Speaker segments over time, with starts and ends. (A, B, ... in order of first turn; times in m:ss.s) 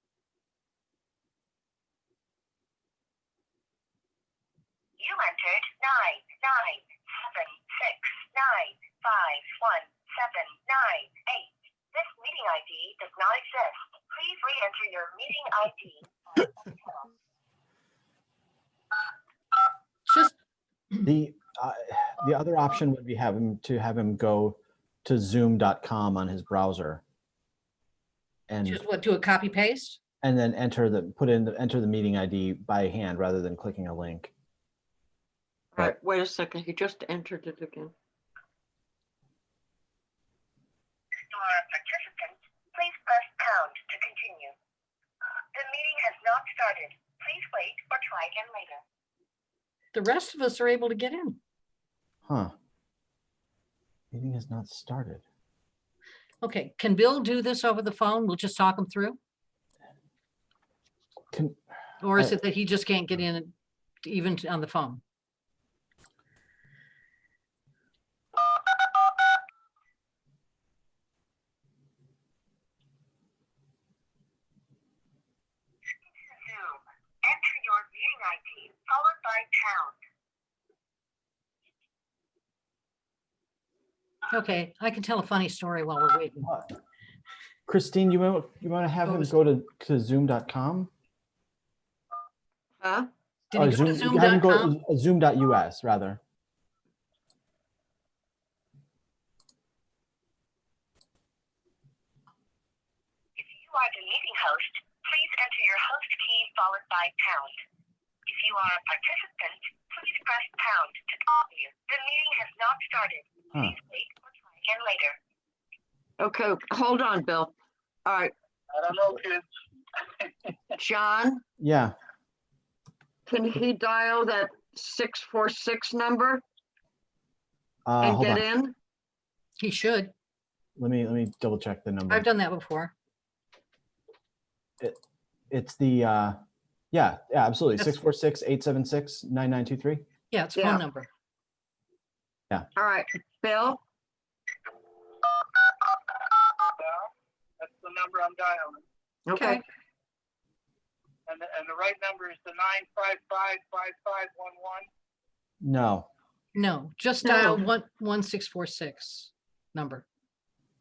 0:05.0-0:17.1 A
0:21.0-0:27.0 B
0:28.5-0:28.8 B
0:28.6-0:30.0 C
0:30.2-0:34.3 B
0:35.7-0:37.9 D
0:41.2-0:44.5 A
0:45.5-0:48.8 A
0:49.9-0:51.4 C
0:52.2-0:52.5 B
0:54.1-0:55.2 B
0:56.4-0:59.2 C
1:01.3-1:01.6 B
1:02.0-1:03.5 C
1:04.0-1:05.0 C
1:16.1-1:20.0 A
1:24.3-1:26.5 C
1:26.4-1:26.7 B
1:27.7-1:30.9 B
1:32.8-1:33.1 D
1:33.5-1:34.7 C
1:33.5-1:36.2 B
1:43.4-1:47.6 A
1:48.3-1:55.2 A
1:56.2-1:57.5 D
1:58.0-1:58.3 D
1:58.7-1:59.5 E
2:00.2-2:00.5 E
2:00.8-2:01.4 D
2:01.6-2:01.9 B
2:03.3-2:06.4 D
2:07.8-2:08.4 B
2:08.0-2:08.7 D
2:09.6-2:10.1 C
2:10.8-2:12.2 B
2:12.1-2:12.9 C
2:15.5-2:16.4 B
2:16.9-2:20.0 B
2:20.3-2:21.1 C
2:20.5-2:20.8 D
2:22.8-2:23.8 D
2:26.8-2:28.8 E
2:29.3-2:29.6 D
2:29.3-2:29.6 C
2:31.3-2:34.9 E
2:35.6-2:36.1 B
2:36.5-2:40.0 C